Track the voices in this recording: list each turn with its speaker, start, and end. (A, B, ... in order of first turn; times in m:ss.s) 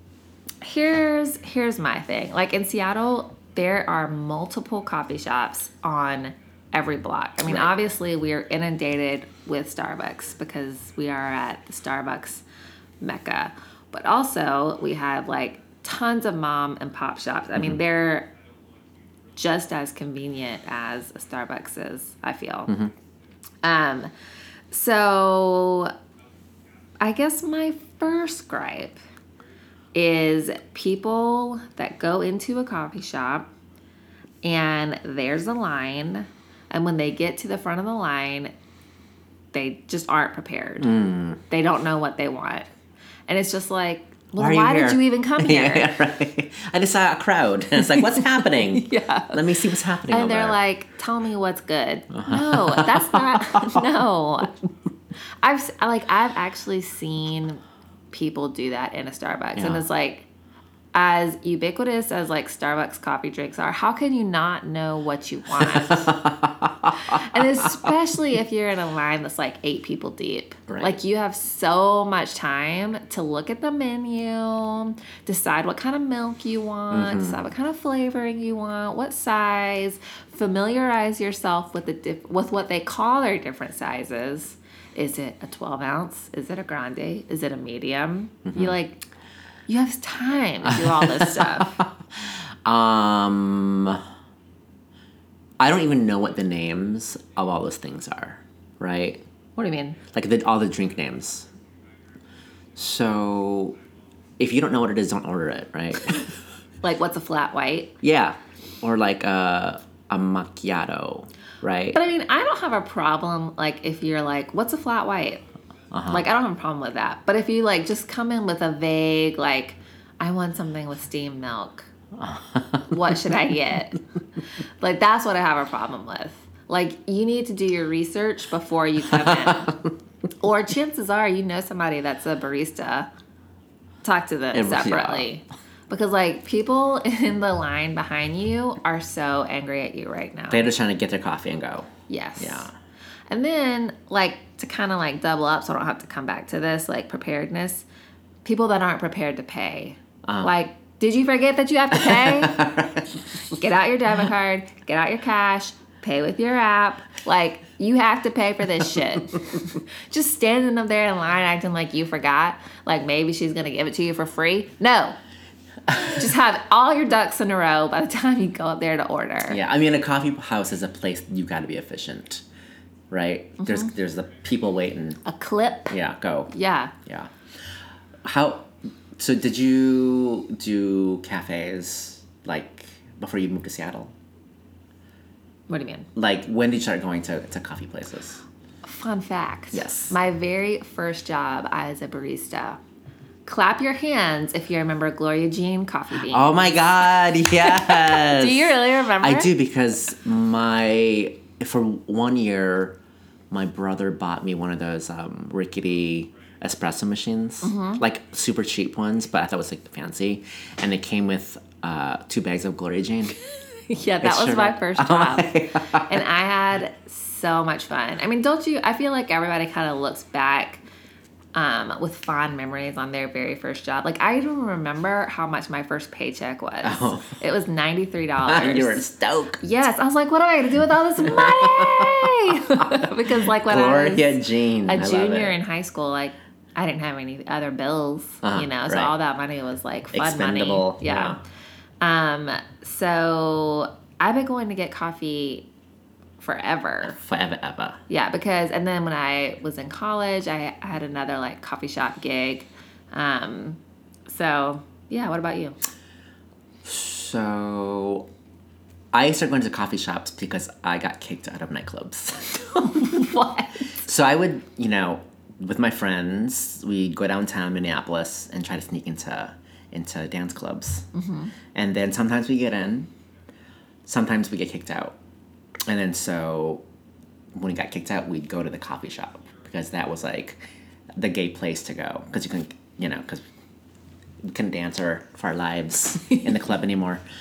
0:00.6-0:12.4 A
0:13.0-0:18.3 A
0:19.4-0:22.8 A
0:23.6-0:24.1 A
0:24.7-0:25.9 A
0:27.0-0:29.0 A
0:29.9-0:33.5 A
0:34.4-0:38.5 A
0:39.5-0:41.0 A
0:40.8-0:41.4 B
0:41.5-0:42.7 A
0:43.3-0:45.9 A
0:44.4-0:50.6 B
0:47.8-0:49.4 A
0:50.1-0:54.6 A
0:52.2-0:53.8 B
0:55.4-1:00.3 A
0:59.6-0:59.8 B
1:00.9-1:06.2 A
1:05.6-1:07.9 B
1:07.0-1:29.0 A
1:10.7-1:11.0 B
1:16.9-1:17.4 B
1:28.5-1:28.8 B
1:29.7-1:31.8 A
1:30.6-1:34.0 B
1:35.6-1:39.2 B
1:39.6-1:40.0 A
1:40.1-1:41.5 B
1:42.8-1:43.8 B
1:44.4-1:46.4 B
1:46.8-1:48.0 A
1:48.0-1:52.0 B
1:51.9-1:55.4 A
1:55.9-1:56.3 B
1:56.1-2:01.9 A
2:02.2-2:03.0 B
2:02.9-2:04.0 A
2:04.8-2:09.8 A
2:09.1-2:09.9 B
2:10.4-2:13.1 A
2:14.0-2:20.7 A
2:14.5-2:15.3 B
2:20.5-2:22.7 B
2:22.1-2:22.7 A
2:23.3-2:27.9 A
2:28.4-2:32.7 A
2:31.9-2:33.2 B
2:33.5-2:45.2 A
2:45.9-2:46.2 B
2:45.9-2:49.6 A
2:49.5-2:52.4 B
2:53.1-2:55.2 B
2:53.6-2:53.9 A
2:55.2-2:56.0 A
2:55.9-2:56.5 B
2:56.5-2:56.9 A
2:57.0-2:57.3 B
2:58.2-3:04.1 B
3:05.7-3:06.1 A
3:06.2-3:08.4 B
3:08.8-3:12.8 A
3:09.7-3:10.2 B
3:13.5-3:19.5 A
3:16.3-3:23.0 B
3:23.5-3:33.4 B
3:27.6-3:28.0 A
3:33.9-3:40.8 A
3:34.2-3:36.2 B
3:41.6-3:49.0 A
3:46.8-3:47.4 B
3:48.5-3:49.6 B
3:49.6-4:01.4 A
3:51.2-3:55.6 B
3:58.4-3:59.1 B
4:00.1-4:01.4 B
4:02.0-4:05.7 A
4:06.4-4:07.2 A
4:07.1-4:08.0 B
4:08.1-4:15.8 A
4:16.8-4:18.3 B
4:19.1-4:23.3 B
4:22.8-4:24.0 A
4:24.0-4:31.1 B
4:31.1-4:31.5 A
4:31.7-4:33.1 B
4:34.1-4:35.2 B
4:35.9-4:36.8 B
4:37.5-4:40.6 B
4:41.2-4:43.4 B
4:44.4-4:47.2 B